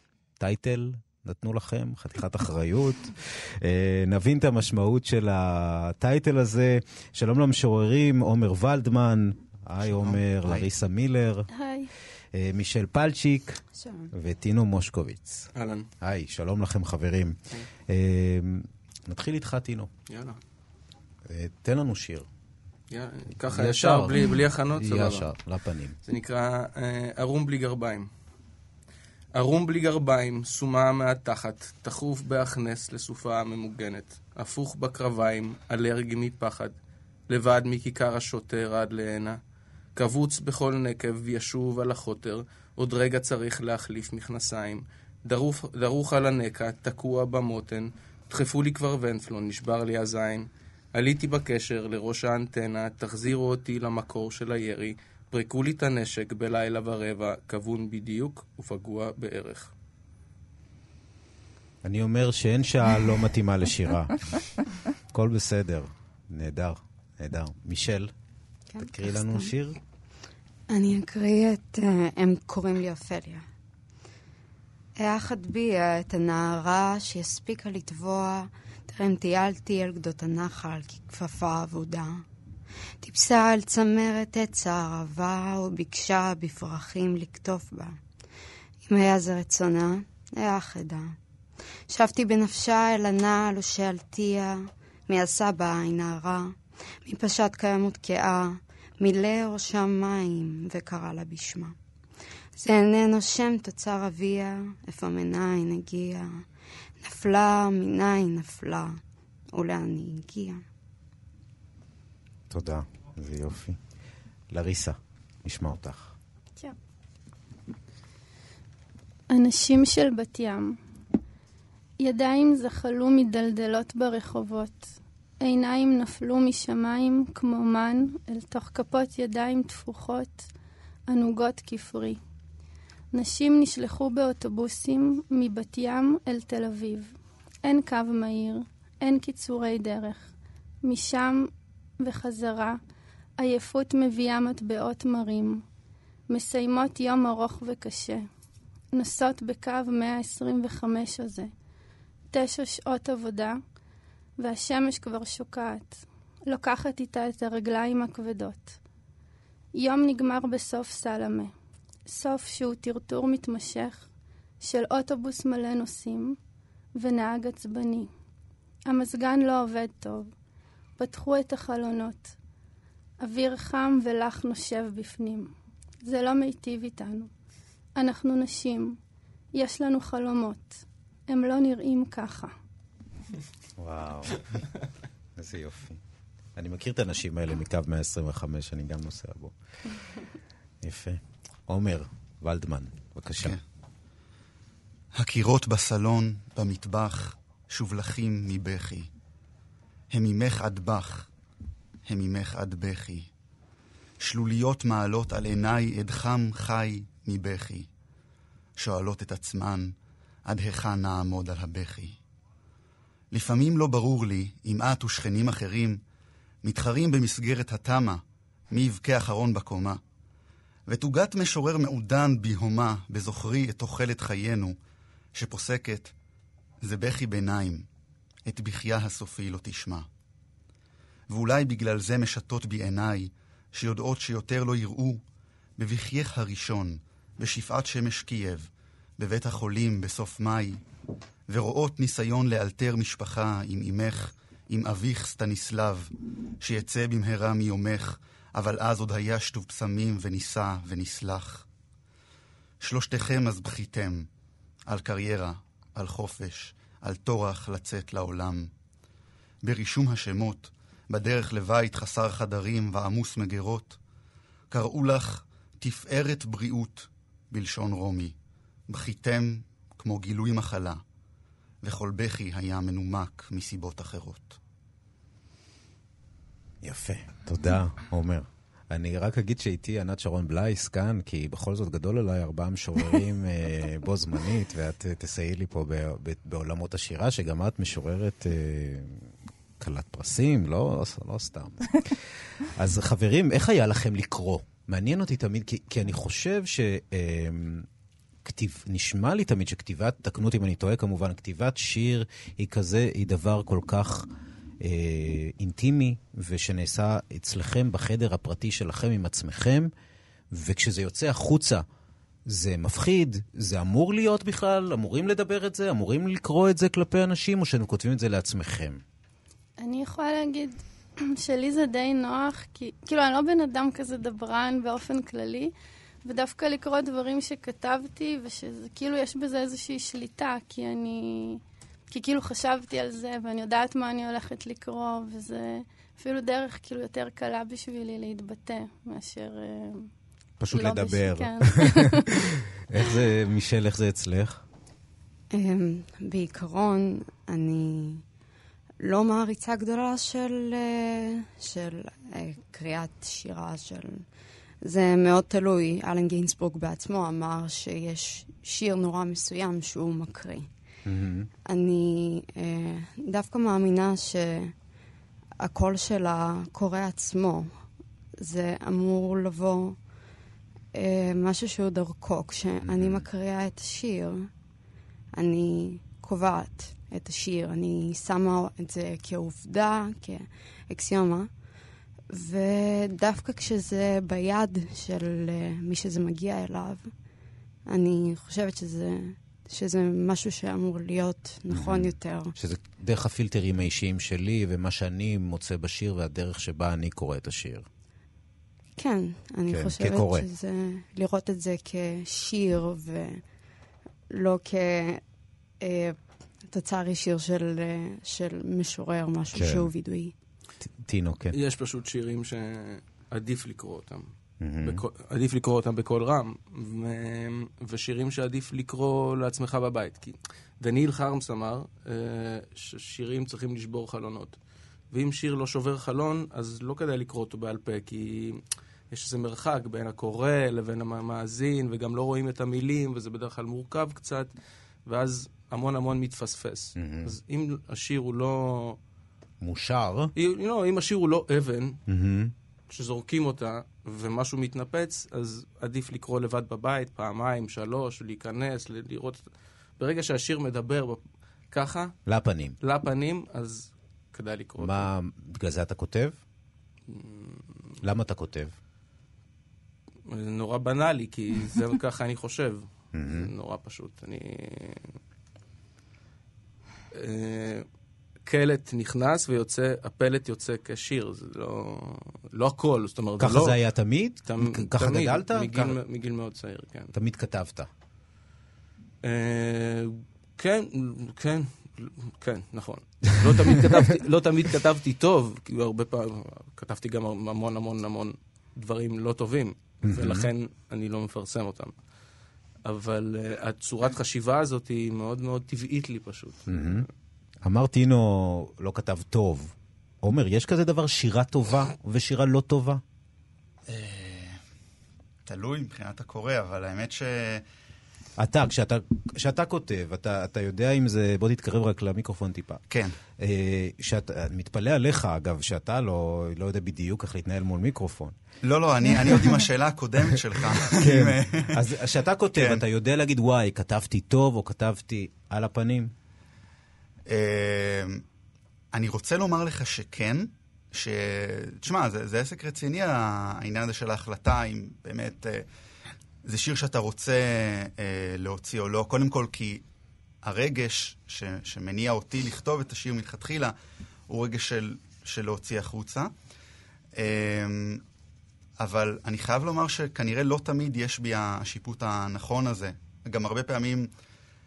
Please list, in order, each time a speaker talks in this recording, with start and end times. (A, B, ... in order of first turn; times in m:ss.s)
0:00.4-0:11.5 A
0:11.5-0:11.9 B
0:12.3-0:13.6 A
0:13.7-0:14.1 C
0:14.1-0:15.5 A
0:15.5-0:15.9 D
0:16.0-0:17.4 A
0:17.9-0:19.9 A
0:20.1-0:20.4 D
0:21.2-0:22.3 A
0:22.9-0:25.3 D
0:23.4-0:26.0 A
0:26.0-0:28.1 D
0:29.3-0:36.7 D
0:37.3-0:39.4 D
0:40.0-0:59.7 D
1:01.8-1:04.5 A
1:05.1-1:08.1 A
1:08.7-1:09.5 C
1:08.8-1:09.8 A
1:10.7-1:13.4 C
1:15.0-1:22.2 C
1:23.0-1:28.0 C
1:28.8-1:31.2 C
1:31.9-1:41.8 C
1:42.5-1:46.4 C
1:47.0-1:49.0 C
1:49.5-1:50.6 C
1:52.5-1:53.8 A
1:54.5-1:56.1 A
1:59.3-2:00.8 B
2:02.0-2:04.8 B
2:05.4-2:10.4 B
2:11.1-2:12.2 B
2:13.1-2:17.1 B
2:17.6-2:22.8 B
2:23.4-2:25.6 B
2:26.3-2:28.3 B
2:28.9-2:31.5 B
2:32.3-2:33.6 B
2:34.4-2:38.8 B
2:39.7-2:41.5 B
2:42.0-2:44.1 B
2:44.6-2:46.4 B
2:47.0-2:48.1 B
2:48.9-2:50.3 B
2:51.0-2:52.3 B
2:53.2-2:55.5 B
2:56.0-2:57.3 B
2:58.0-2:59.0 B
2:59.5-3:02.5 B
3:03.8-3:04.4 A
3:05.4-3:06.0 A
3:06.6-3:09.5 A
3:10.8-3:13.6 A
3:15.1-3:19.1 E
3:20.1-3:21.3 E
3:22.0-3:23.3 E
3:24.2-3:27.9 E
3:28.8-3:29.9 E
3:30.4-3:32.2 E
3:33.3-3:36.0 E
3:36.6-3:40.0 E
3:40.9-3:44.8 E
3:45.3-3:46.1 E
3:46.8-3:47.8 E
3:48.4-3:50.1 E
3:51.3-3:55.2 E
3:55.8-4:00.8 E
4:01.5-4:11.6 E
4:12.8-4:14.3 E
4:14.9-4:18.7 E
4:19.6-4:24.0 E
4:24.7-4:28.3 E
4:28.9-4:31.0 E
4:31.8-4:34.6 E
4:36.8-4:49.2 A
4:49.8-4:57.9 A
4:58.4-5:04.3 A
5:04.8-5:09.9 A
5:10.5-5:11.8 A
5:12.5-5:19.0 A
5:19.8-5:25.7 B
5:26.2-5:40.1 B
5:40.6-5:42.2 A
5:40.7-5:42.3 B
5:42.9-5:44.6 A
5:45.5-5:48.2 C
5:49.0-5:54.2 C
5:54.8-6:00.7 C
6:01.0-6:01.5 A
6:01.6-6:04.7 C
6:05.6-6:07.7 C
6:08.4-6:10.0 C
6:10.9-6:14.5 C
6:12.8-6:13.2 A
6:15.3-6:21.5 C
6:22.3-6:27.1 C
6:27.9-6:32.5 C
6:31.7-6:37.8 A
6:39.0-6:43.4 C
6:39.7-6:40.4 A
6:44.3-6:45.2 C
6:45.8-6:50.3 C
6:49.5-6:49.9 A
6:50.8-6:51.6 A
6:51.5-6:54.3 D
6:54.6-6:55.0 A
6:54.8-7:04.6 D
7:05.1-7:14.5 D
7:15.0-7:19.0 D
7:17.0-7:17.3 A
7:19.6-7:20.3 A
7:20.4-7:22.0 D
7:22.1-7:22.5 A
7:22.9-7:29.4 D
7:30.0-7:31.2 D
7:31.7-7:32.2 D
7:32.2-7:32.8 A
7:32.8-7:35.1 D
7:34.8-7:36.4 A
7:37.1-7:37.6 D
7:38.0-7:38.7 A
7:40.3-7:45.1 D
7:43.1-7:43.5 A
7:47.1-7:47.8 D
7:48.4-7:53.8 D
7:53.4-7:56.0 A
7:54.4-7:57.1 D
7:57.1-7:57.9 A
7:59.2-8:11.9 D
8:10.0-8:10.5 A
8:12.8-8:17.0 D
8:16.7-8:17.1 A
8:17.6-8:23.0 A
8:23.9-8:24.6 E
8:25.4-8:27.6 E
8:28.4-8:32.8 A
8:32.9-8:33.2 E
8:33.4-8:38.4 A
8:38.6-8:41.8 E
8:40.8-8:46.1 A
8:42.6-8:42.8 E
8:47.3-8:48.2 E
8:48.9-8:55.6 E
8:56.4-8:59.8 E
9:00.4-9:03.7 E
9:04.3-9:06.3 E
9:07.1-9:08.0 E
9:08.8-9:14.1 E